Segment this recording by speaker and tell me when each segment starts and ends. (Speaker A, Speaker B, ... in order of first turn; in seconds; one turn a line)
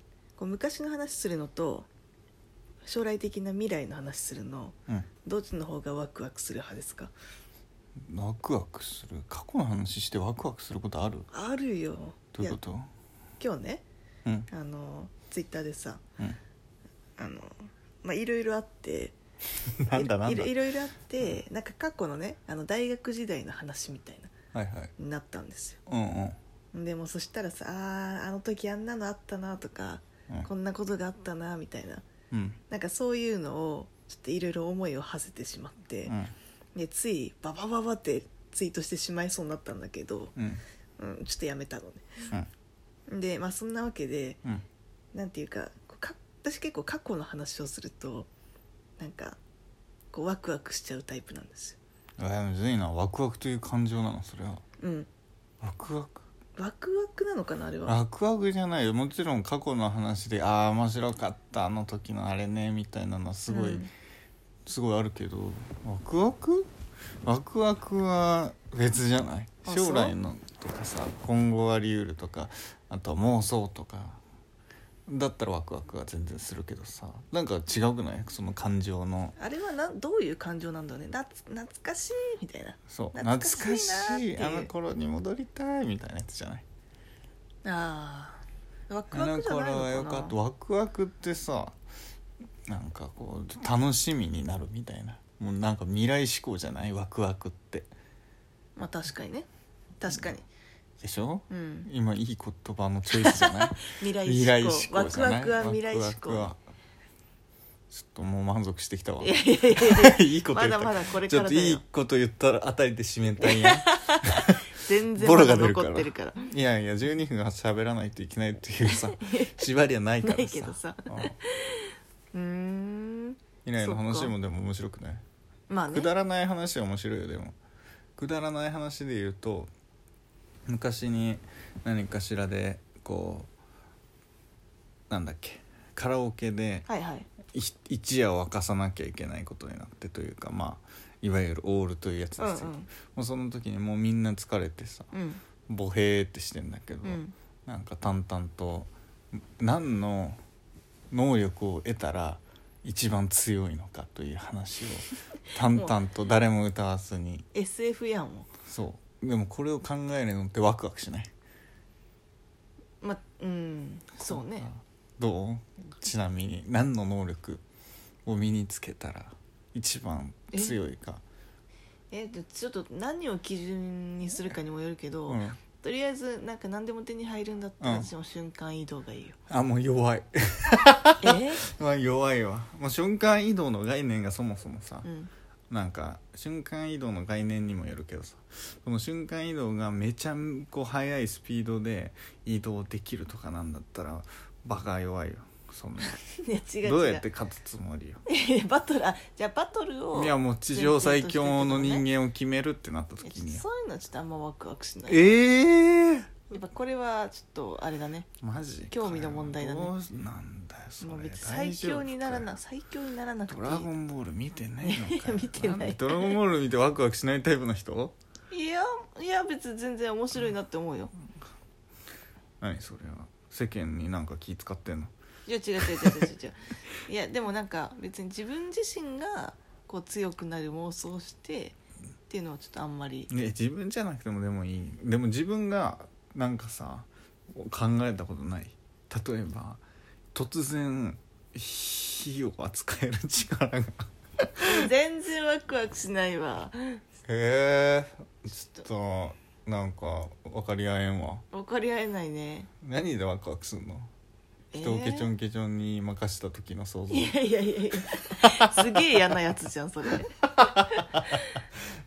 Speaker A: 0.4-1.9
Speaker A: 2.8-7.1
Speaker B: 8.1-11.3
Speaker A: 11.3-12.6
Speaker B: 12.3-12.9
Speaker A: 13.4-13.8
Speaker A: 14.5-16.0
Speaker A: 17.2-19.2
Speaker B: 19.8-20.5
Speaker A: 19.9-24.3
Speaker B: 24.5-24.9
Speaker A: 25.0-25.8
Speaker B: 25.9-26.4
Speaker A: 26.7-32.0
Speaker B: 32.3-32.6
Speaker A: 32.7-36.1
Speaker B: 36.1-36.3
Speaker A: 36.8-40.3
Speaker B: 40.4-40.6
Speaker A: 41.0-42.3
Speaker A: 43.1-44.4
Speaker A: 45.1-48.3
Speaker A: 49.0-49.4
Speaker A: 50.1-51.8
Speaker B: 52.2-54.6
Speaker A: 54.8-55.1
Speaker B: 55.6-56.2
Speaker A: 56.6-58.0
Speaker B: 57.9-63.9
Speaker A: 63.5-63.9
Speaker B: 64.7-66.7
Speaker B: 67.2-74.2
Speaker A: 69.7-70.2
Speaker B: 75.1-79.4
Speaker A: 79.4-84.7
Speaker B: 82.9-86.7
Speaker A: 87.6-90.4
Speaker B: 89.1-91.8
Speaker B: 92.7-97.9
Speaker A: 98.8-99.5
Speaker A: 100.0-100.5
Speaker B: 100.1-100.3
Speaker B: 101.0-106.6
Speaker A: 101.5-101.9
Speaker A: 103.2-106.5
Speaker B: 107.9-121.4
Speaker A: 109.2-111.8
Speaker A: 113.4-116.5
Speaker A: 118.9-119.7
Speaker A: 120.2-124.3
Speaker B: 123.7-125.2
Speaker A: 125.7-126.1
Speaker B: 125.9-127.6
Speaker B: 128.2-129.7
Speaker B: 130.7-133.5
Speaker B: 135.1-136.9
Speaker A: 136.9-137.3
Speaker B: 137.5-145.1
Speaker A: 142.4-142.9
Speaker A: 145.1-145.4
Speaker B: 145.7-150.4
Speaker A: 147.0-147.3
Speaker B: 151.1-157.5
Speaker A: 157.5-158.5
Speaker B: 158.7-161.3
Speaker A: 163.0-164.7
Speaker B: 164.2-167.6
Speaker B: 168.3-171.2
Speaker A: 172.1-179.4
Speaker B: 175.3-175.6
Speaker B: 177.8-178.1
Speaker B: 179.5-185.1
Speaker A: 181.2-181.7
Speaker A: 185.1-185.3
Speaker B: 185.7-196.2
Speaker A: 196.2-197.2
Speaker B: 196.8-198.2
Speaker A: 198.3-202.1
Speaker B: 200.1-203.7
Speaker A: 203.2-205.4
Speaker B: 205.1-206.3
Speaker A: 206.5-208.3
Speaker B: 208.4-212.5
Speaker A: 208.9-209.9
Speaker A: 211.0-213.9
Speaker B: 213.5-218.2
Speaker A: 214.8-216.4
Speaker A: 218.5-221.1
Speaker B: 222.6-225.1
Speaker A: 225.5-231.8
Speaker B: 225.8-226.3
Speaker A: 232.3-233.3
Speaker B: 233.3-239.8
Speaker B: 240.3-244.9
Speaker A: 244.6-247.0
Speaker B: 247.3-251.4
Speaker A: 251.5-252.7
Speaker B: 252.8-254.1
Speaker A: 254.7-255.3
Speaker B: 254.8-257.4
Speaker A: 257.1-261.6
Speaker B: 258.4-259.0